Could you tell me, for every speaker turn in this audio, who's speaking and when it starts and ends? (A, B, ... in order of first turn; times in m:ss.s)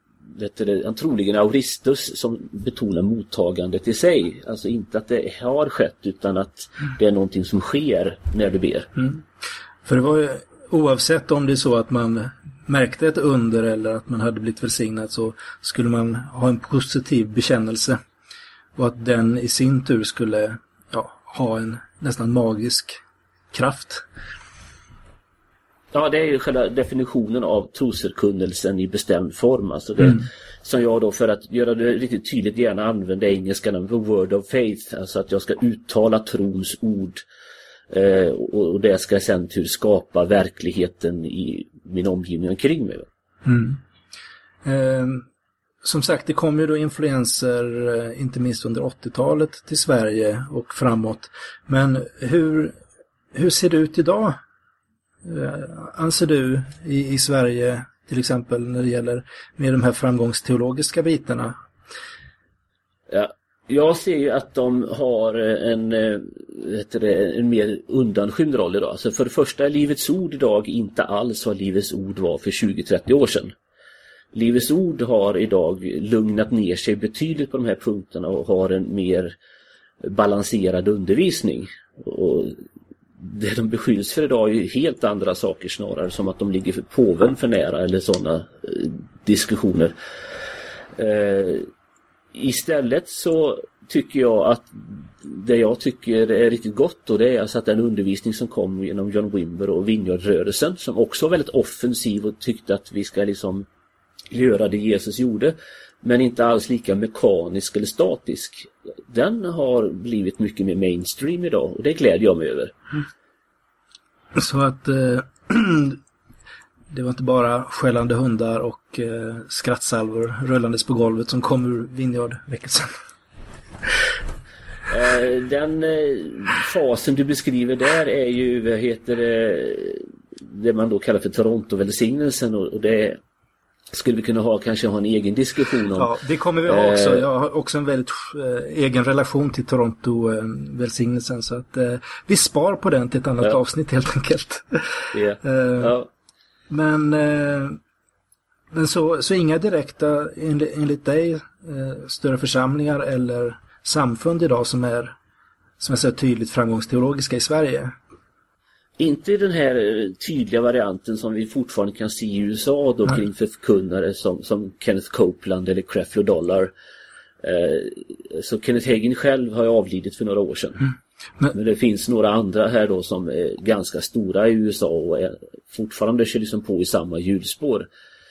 0:00.3-0:08.9 A
0:09.0-0:09.2 B
0:09.8-0:18.0 B
0:18.8-0:23.0 B
0:23.5-0:24.0 B
0:25.9-0:37.2 A
0:37.9-0:43.1 A
0:43.4-0:43.8 B
0:44.6-0:45.2 B
0:45.8-0:52.8 B
0:53.3-0:54.4 B
0:55.2-1:01.5 B
1:03.1-1:13.5 A
1:14.3-1:19.3 A
1:20.0-1:22.6 A
1:23.2-1:29.9 A
1:31.0-1:31.7 A
1:32.3-1:43.6 A
1:44.3-1:52.7 A
1:54.3-1:56.0 B
1:56.9-2:02.9 B
2:04.9-2:13.2 A
2:13.9-2:16.1 A
2:16.0-2:25.9 B
2:16.6-2:17.2 A
2:25.1-2:26.1 A
2:26.7-2:27.8 B
2:28.7-2:35.2 B
2:35.8-2:37.9 B
2:39.0-2:46.7 A
2:47.4-2:50.9 A
2:51.5-2:57.9 A